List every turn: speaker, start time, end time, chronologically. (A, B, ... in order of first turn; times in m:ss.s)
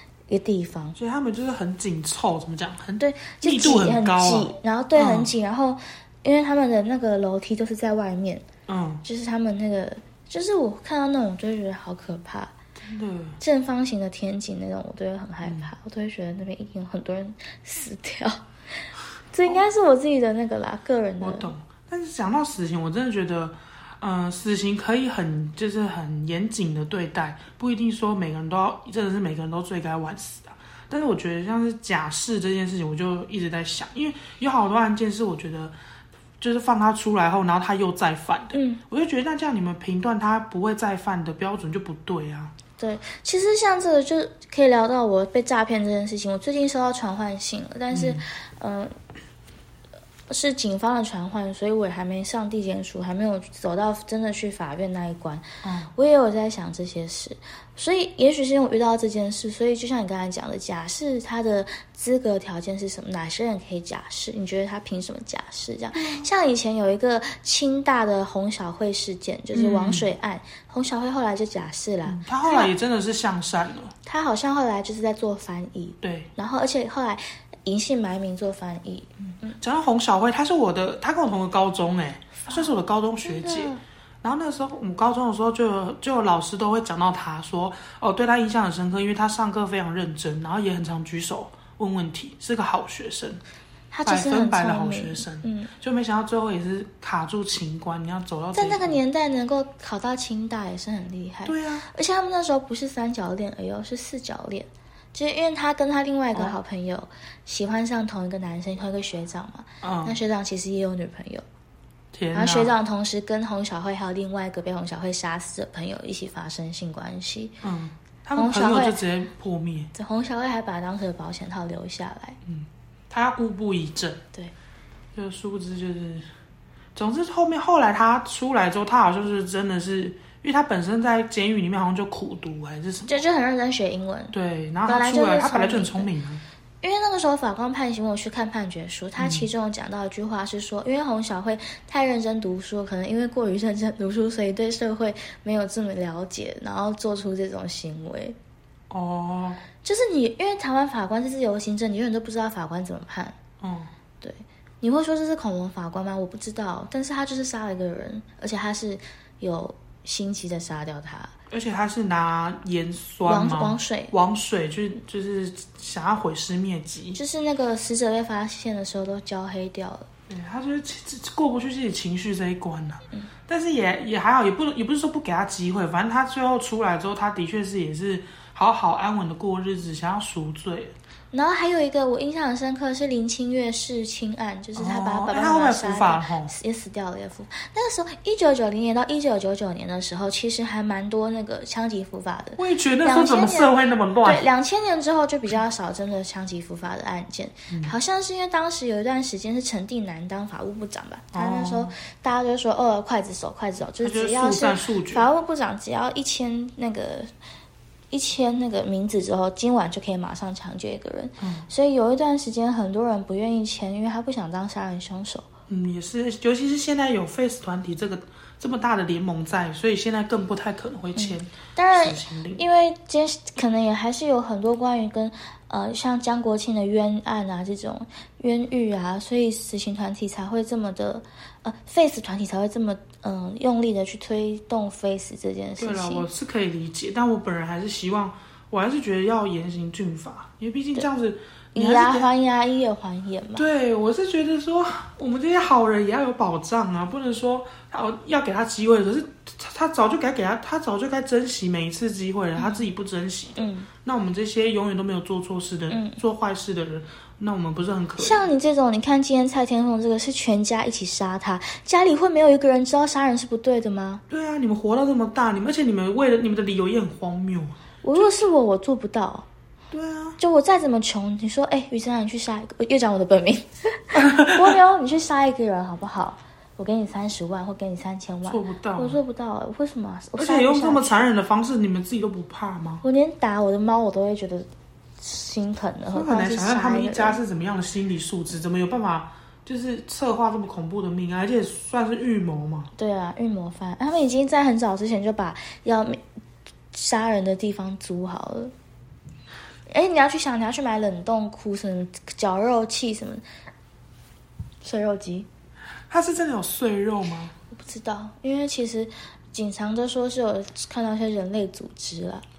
0:00.3-0:01.0 A
0:01.0-0:05.3 B
0:03.0-0:08.4 A
0:08.7-0:09.0 B
0:09.0-0:12.5 A
0:12.8-0:13.4 B
0:13.4-0:18.4 A
0:15.4-0:15.7 B
0:19.3-0:21.5 A
0:21.2-0:35.7 B
0:36.4-0:42.5 B
0:38.5-0:38.8 A
0:42.8-0:48.9 A
0:47.9-0:48.2 B
0:50.3-1:12.7 A
0:55.6-0:55.9 B
1:05.9-1:06.3 B
1:09.5-1:10.1 B
1:12.1-1:13.9 B
1:14.1-1:19.6 A
1:16.0-1:16.3 B
1:19.6-1:33.4 B
1:23.2-1:23.8 A
1:33.9-1:35.7 A
1:34.0-1:39.0 B
1:38.5-1:51.4 A
1:41.4-1:41.9 B
1:49.8-1:50.2 B
1:52.1-1:52.7 B
1:52.3-1:57.6 A
1:57.6-1:59.9 B
1:58.4-1:59.0 A
1:59.9-2:02.4 A
2:02.4-2:04.2 B
2:05.1-2:06.3 B
2:06.9-2:13.2 B
2:13.1-2:14.3 A
2:14.3-2:16.4 B
2:14.8-2:16.1 A
2:16.8-2:28.4 A
2:19.2-2:19.5 B
2:28.9-2:29.6 B
2:29.8-2:33.4 A
2:33.6-2:33.9 B
2:34.2-2:41.3 A
2:41.5-2:47.2 B
2:43.3-2:44.1 A
2:47.1-2:50.1 A
2:50.3-3:00.9 B
3:01.3-3:27.3 A
3:04.8-3:06.5 B
3:12.6-3:14.4 B
3:21.3-3:21.9 B
3:24.0-3:25.3 B
3:28.1-3:35.5 A
3:31.4-3:31.7 B
3:35.7-3:42.6 B
3:41.2-3:56.2 A
3:55.8-4:02.3 B
4:01.7-4:03.6 A
4:03.6-4:18.4 B
4:12.6-4:12.8 A
4:13.6-4:13.9 A
4:15.9-4:16.2 A
4:18.2-4:24.2 A
4:24.3-4:28.3 B
4:28.0-4:29.5 A
4:29.9-4:30.4 B
4:30.4-4:41.2 A
4:34.1-4:34.8 B
4:38.4-4:39.2 B
4:40.4-4:43.0 B
4:43.0-4:44.7 A
4:45.2-4:47.4 A
4:46.1-4:52.9 B
4:53.0-4:56.2 A
4:56.9-4:58.7 A
4:59.9-5:03.4 A
5:04.8-5:05.5 A
5:06.1-5:07.5 B
5:07.7-5:12.4 A